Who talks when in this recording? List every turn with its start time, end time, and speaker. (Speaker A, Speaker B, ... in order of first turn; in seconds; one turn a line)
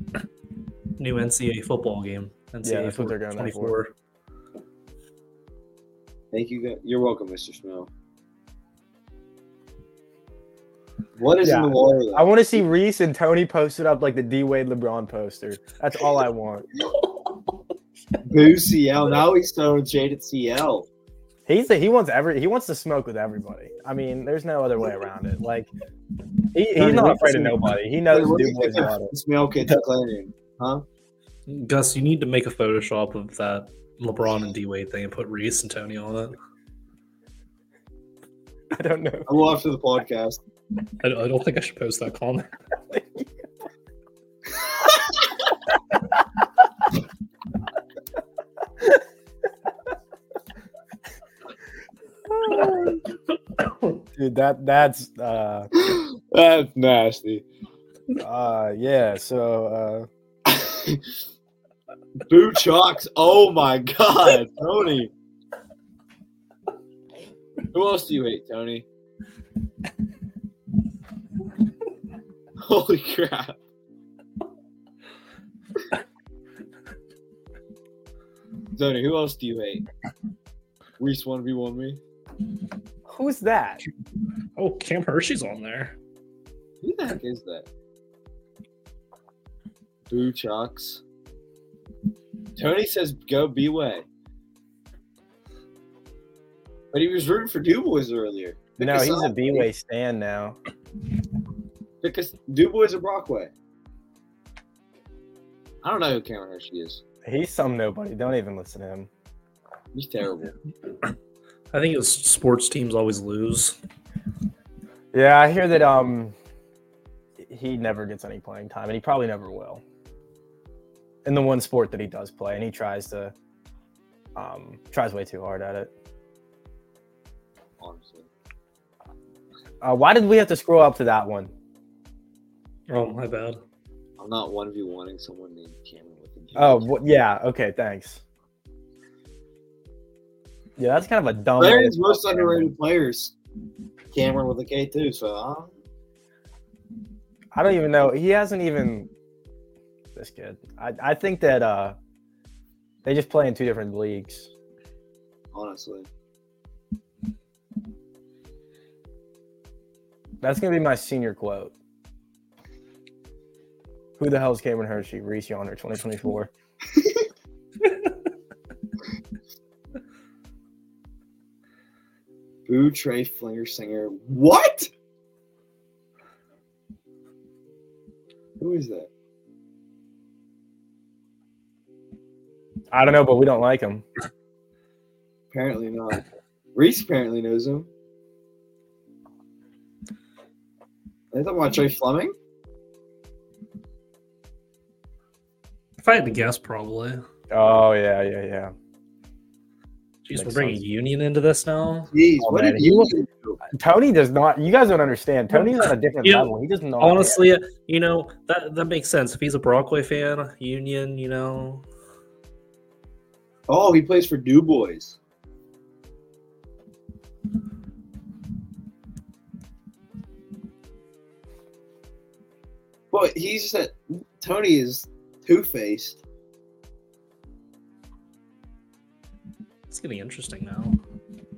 Speaker A: 1.0-3.9
Speaker B: 2.6-3.8
Speaker C: 6.3-7.9
Speaker C: 11.2-12.4
Speaker B: 11.4-16.7
Speaker C: 18.2-20.9
Speaker B: 21.5-25.7
Speaker B: 26.5-29.1
Speaker A: 26.8-27.8
Speaker C: 28.1-30.8
Speaker A: 31.5-36.3
Speaker B: 38.7-39.3
Speaker C: 39.3-40.4
Speaker A: 41.0-42.5
Speaker B: 42.9-43.3
Speaker B: 52.4-53.0
Speaker A: 53.6-54.0
Speaker B: 54.2-55.7
Speaker C: 55.8-57.5
Speaker B: 58.2-60.1
Speaker C: 60.5-61.1
Speaker C: 62.3-65.1
Speaker C: 67.7-68.8
Speaker C: 72.6-73.6
Speaker C: 78.8-79.9
Speaker C: 81.0-82.0
Speaker B: 83.1-83.8
Speaker A: 84.6-86.0
Speaker C: 86.8-87.7
Speaker C: 90.1-91.0
Speaker C: 92.6-94.1
Speaker C: 96.9-99.7
Speaker B: 98.8-100.6
Speaker C: 102.0-103.5
Speaker C: 105.8-107.0
Speaker B: 107.2-109.1
Speaker C: 109.9-110.5
Speaker A: 111.7-113.8
Speaker B: 115.1-116.3
Speaker B: 117.4-119.8
Speaker B: 121.2-123.3
Speaker B: 124.4-125.9
Speaker C: 127.8-128.3
Speaker B: 129.8-131.5
Speaker A: 132.9-133.6
Speaker C: 134.2-136.9
Speaker B: 136.6-138.2
Speaker B: 140.8-142.7
Speaker C: 141.6-143.3
Speaker C: 144.1-145.7
Speaker B: 147.5-149.1
Speaker B: 150.2-152.0
Speaker B: 153.1-154.5
Speaker C: 155.5-156.1
Speaker B: 160.4-161.7
Speaker B: 164.2-166.5
Speaker C: 172.7-174.9
Speaker C: 178.6-179.1
Speaker B: 182.9-184.1
Speaker C: 185.5-187.9
Speaker C: 191.3-192.3
Speaker A: 196.0-197.2
Speaker B: 197.5-198.7
Speaker A: 200.2-202.1
Speaker B: 200.3-200.8
Speaker C: 202.1-203.6
Speaker B: 202.4-203.1
Speaker B: 203.7-207.4
Speaker A: 205.5-211.8
Speaker C: 213.7-215.2
Speaker C: 223.1-226.2
Speaker A: 229.9-231.0